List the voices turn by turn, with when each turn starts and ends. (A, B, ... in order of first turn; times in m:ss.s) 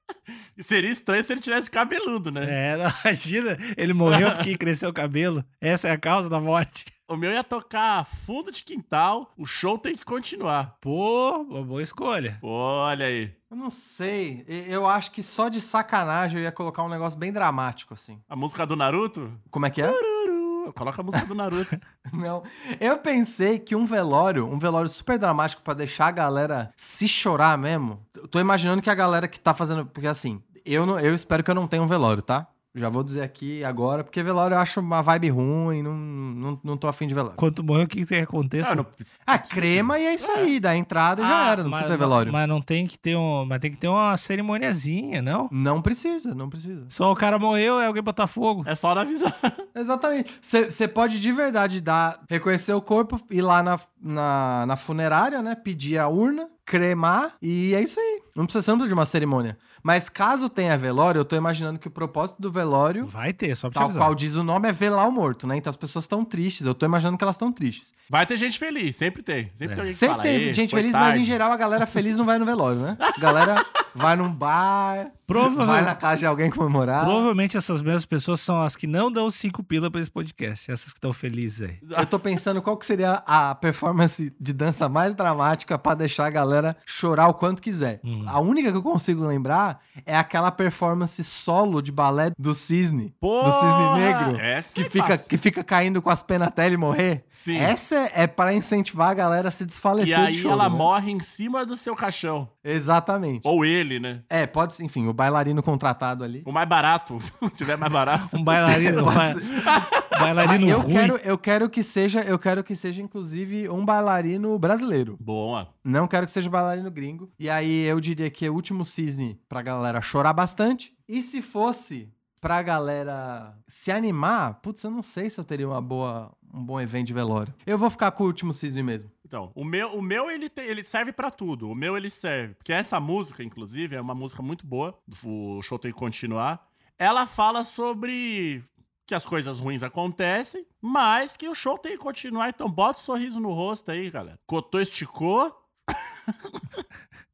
0:00.6-0:02.6 A
0:02.4-0:06.9 B
0:04.1-0:04.5 A
0:07.1-0:10.7 A
0:10.8-0:12.4 B
0:12.4-0:13.4 A
0:13.5-0:18.2 C
0:18.3-0:21.8 A
0:19.5-0:20.0 C
0:22.1-0:37.4 C
0:37.4-0:38.8 B
0:38.6-0:40.5 A
0:39.3-0:42.4 C
0:41.2-0:45.5 B
0:45.5-0:46.9 C
0:46.9-0:48.7 B
0:48.6-0:49.6 A
0:49.8-1:03.1 C
1:03.0-1:04.2 B
1:03.7-1:07.9 C
1:08.1-1:11.4 A
1:09.9-1:17.3 C
1:13.0-1:13.8 A
1:15.3-1:16.0 B
1:17.0-1:21.8 B
1:21.8-1:22.1 A
1:22.0-1:40.9 C
1:28.0-1:28.4 B
1:33.2-1:35.3 A
1:37.3-1:37.8 A
1:40.0-1:42.5 A
1:42.6-1:43.5 C
1:43.4-1:44.2 A
1:44.3-1:46.5 C
1:46.4-1:50.3 A
1:48.3-1:49.4 B
1:48.9-1:49.9 C
1:50.0-1:51.2 B
1:50.4-1:55.2 C
1:55.2-1:55.7 A
1:55.8-2:09.1 C
2:09.3-2:25.6 A
2:26.5-2:26.8 A